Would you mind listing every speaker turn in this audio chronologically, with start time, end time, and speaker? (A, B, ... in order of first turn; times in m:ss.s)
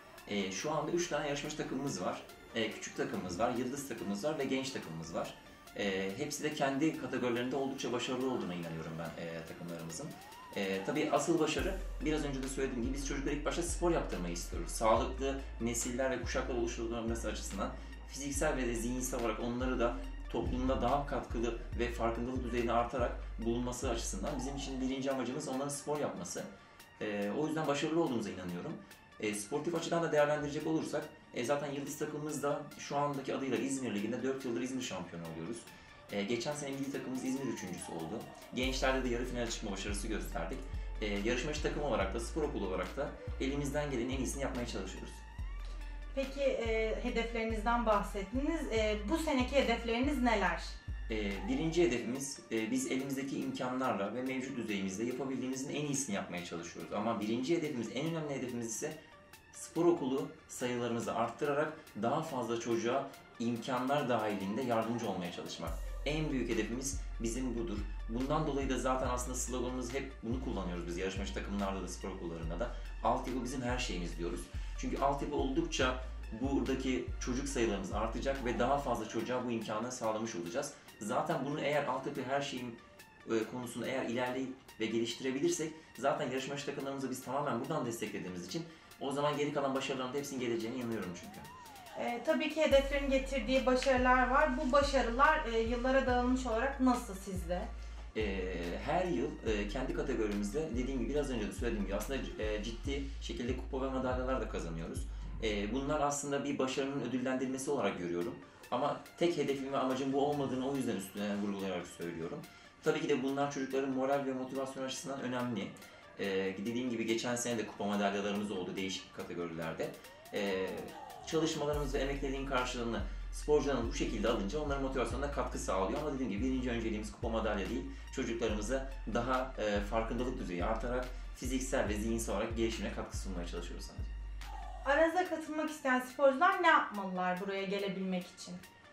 0:00.2-0:45.2 A
0:46.1-0:50.8 B
0:51.1-0:59.0 A
0:59.5-1:31.5 A
1:31.9-1:37.7 B
1:38.1-2:14.1 A
2:14.8-2:18.6 B